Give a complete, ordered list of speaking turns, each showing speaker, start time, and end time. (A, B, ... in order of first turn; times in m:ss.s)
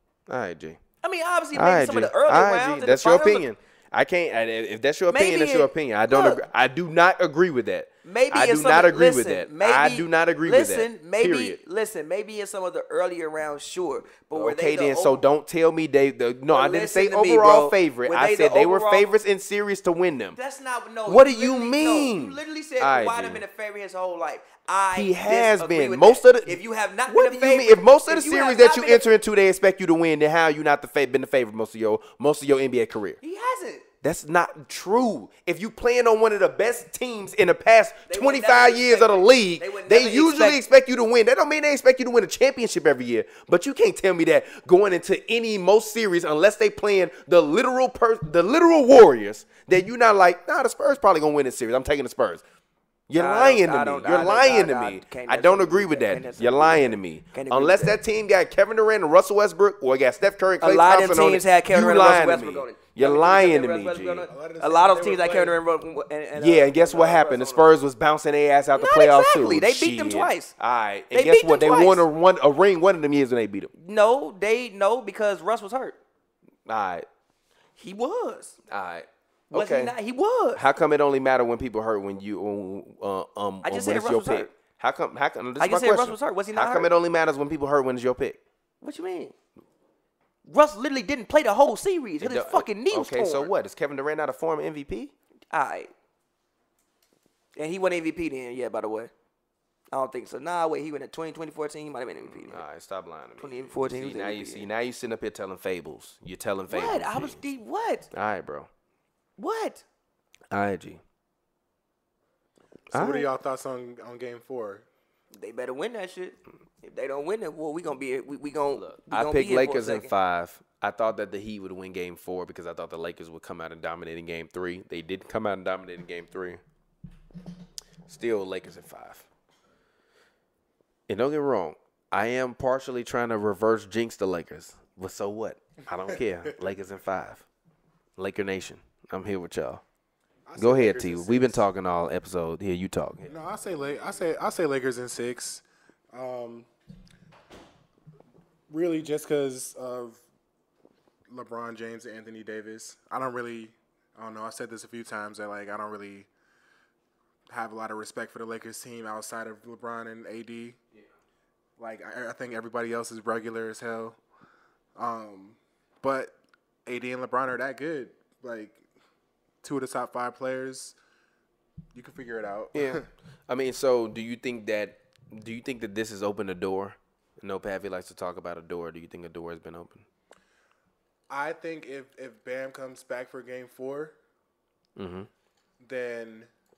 0:00.3-0:00.8 A
0:01.0-0:03.4 B
0:01.6-0:11.6 A
0:05.1-0:06.4 B
0:08.0-0:15.2 B
0:14.3-0:20.4 A
0:16.5-0:19.1 B
0:20.4-0:29.1 B
0:21.1-0:23.4 A
0:24.9-0:33.2 A
0:33.2-0:33.9 B
0:34.0-0:52.4 A
0:38.1-0:40.6 B
0:53.1-1:04.3 A
0:53.1-0:58.0 B
1:00.6-1:07.7 B
1:04.3-1:05.6 C
1:06.4-1:13.7 A
1:08.8-1:10.5 B
1:11.1-1:12.0 B
1:13.8-1:16.0 B
1:16.6-1:17.1 A
1:17.8-1:18.6 B
1:18.7-1:19.9 A
1:19.5-1:20.6 B
1:20.6-1:28.4 A
1:23.6-1:24.5 B
1:25.6-1:26.9 B
1:28.8-1:29.3 B
1:30.4-1:33.5 B
1:32.2-1:35.1 A
1:35.5-1:35.9 B
1:37.6-1:39.1 B
1:39.9-1:42.6 B
1:42.2-1:47.4 A
1:43.4-1:44.7 B
1:46.7-1:48.1 B
1:48.1-1:48.7 A
1:49.4-1:49.8 B
1:50.5-1:51.0 A
1:52.9-1:53.3 A
1:52.9-1:54.8 C
1:55.3-2:00.1 B
1:58.8-2:06.6 A
2:08.1-2:09.3 A
2:11.1-2:17.4 A
2:18.2-2:19.8 A
2:20.5-2:21.7 C
2:20.6-2:23.3 A
2:23.3-2:26.7 C
2:28.7-2:30.2 C
2:31.3-2:36.3 C
2:37.5-2:40.8 C
2:41.8-2:44.2 C
2:45.0-2:46.4 C
2:46.9-2:48.8 C
2:49.6-2:51.0 C
2:51.9-2:53.1 C
2:52.7-3:00.1 A
3:01.3-3:04.1 C
3:05.0-3:05.3 A
3:05.8-3:06.5 C